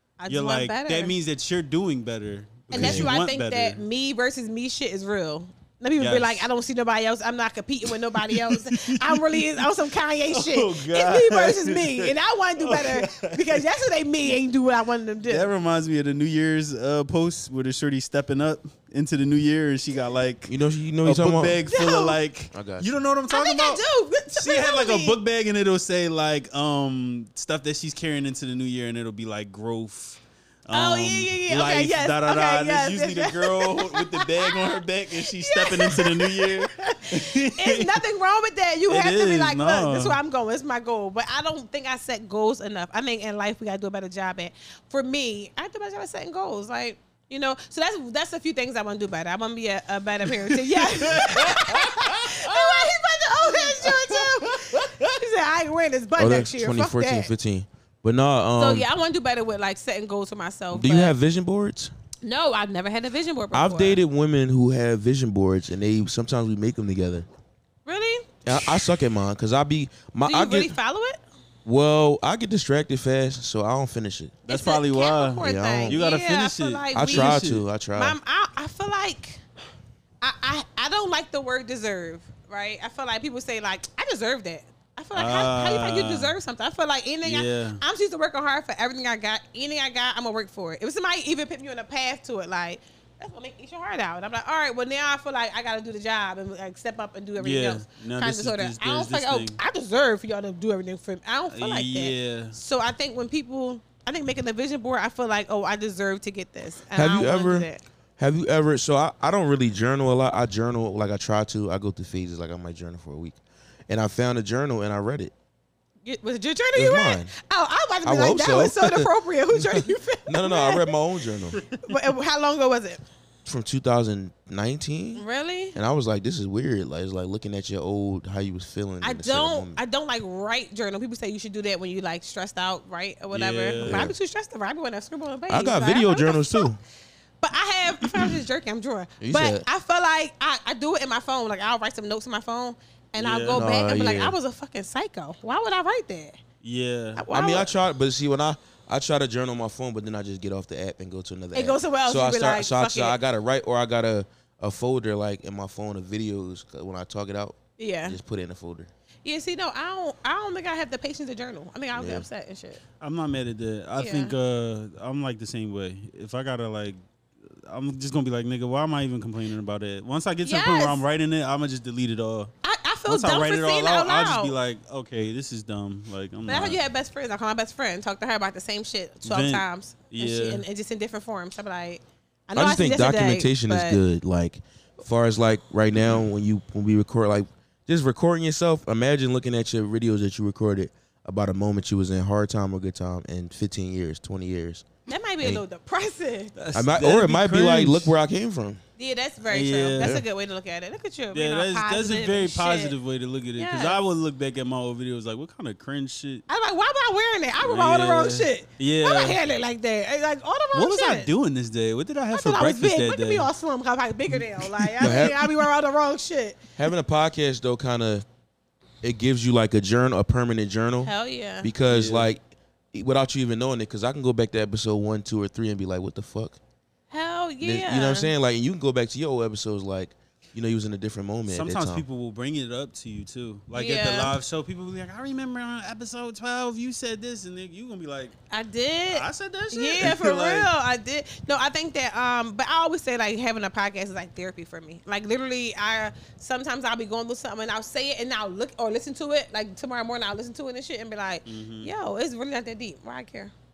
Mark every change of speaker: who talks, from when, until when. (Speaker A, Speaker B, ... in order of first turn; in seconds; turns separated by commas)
Speaker A: 0.2-1.1, Speaker B: 0.3-3.8, Speaker A: 2.7-15.5, Speaker C: 2.7-3.1, Speaker B: 6.0-6.5, Speaker B: 8.2-9.6, Speaker B: 10.3-13.6, Speaker B: 15.3-20.5, Speaker C: 20.4-21.6, Speaker B: 21.0-23.8, Speaker A: 21.7-22.2, Speaker C: 22.5-22.9, Speaker A: 23.3-25.2, Speaker B: 24.4-38.0, Speaker A: 30.7-57.3, Speaker B: 38.9-40.2, Speaker B: 50.5-55.1, Speaker C: 56.1-58.9, Speaker A: 58.6-61.1, Speaker C: 60.7-61.9, Speaker A: 62.2-64.0, Speaker C: 63.5-67.3, Speaker A: 67.9-68.9, Speaker C: 68.4-70.8, Speaker A: 70.3-71.2, Speaker C: 71.6-74.4, Speaker B: 74.4-77.6, Speaker A: 74.5-77.4, Speaker C: 75.4-76.0, Speaker C: 76.9-78.2, Speaker A: 77.9-79.4, Speaker A: 80.2-107.8, Speaker B: 85.1-86.3, Speaker B: 87.2-87.8, Speaker B: 97.4-99.6, Speaker B: 101.5-102.6, Speaker C: 106.9-113.4, Speaker C: 113.9-115.3, Speaker A: 116.0-120.8, Speaker C: 116.8-117.3, Speaker C: 118.0-121.6, Speaker A: 121.8-123.0, Speaker C: 123.4-125.2, Speaker A: 125.2-125.8, Speaker C: 125.8-129.8, Speaker A: 129.0-136.7, Speaker B: 133.3-134.1, Speaker C: 133.8-134.1, Speaker C: 135.5-136.8, Speaker A: 137.4-146.4, Speaker C: 139.2-139.6, Speaker B: 143.2-143.6, Speaker C: 143.5-144.3, Speaker B: 146.6-147.2, Speaker A: 147.2-147.7, Speaker C: 147.3-158.9, Speaker A: 151.5-153.2, Speaker A: 157.8-158.2, Speaker A: 159.2-162.8, Speaker C: 161.9-162.3, Speaker B: 163.0-172.5, Speaker A: 164.0-164.3, Speaker A: 170.4-171.0, Speaker A: 172.6-174.6, Speaker B: 173.1-176.8, Speaker A: 176.4-184.0, Speaker B: 179.2-180.6, Speaker C: 182.5-194.9, Speaker B: 185.9-186.2, Speaker A: 195.1-196.5, Speaker B: 196.6-198.1, Speaker C: 196.7-198.8, Speaker A: 199.0-202.9, Speaker B: 199.5-200.2, Speaker B: 201.3-206.4, Speaker A: 203.6-204.0, Speaker A: 206.5-211.3, Speaker B: 207.6-209.4, Speaker B: 210.7-213.5, Speaker A: 212.3-216.6, Speaker B: 214.3-215.2, Speaker C: 215.0-215.5, Speaker C: 216.8-218.2, Speaker C: 219.0-222.4, Speaker A: 221.0-221.7, Speaker B: 221.9-222.3, Speaker C: 222.9-226.6, Speaker A: 227.1-228.3, Speaker C: 227.6-232.0, Speaker B: 231.5-238.3, Speaker A: 233.7-234.4, Speaker A: 238.5-253.5, Speaker B: 239.1-240.7, Speaker B: 251.4-251.9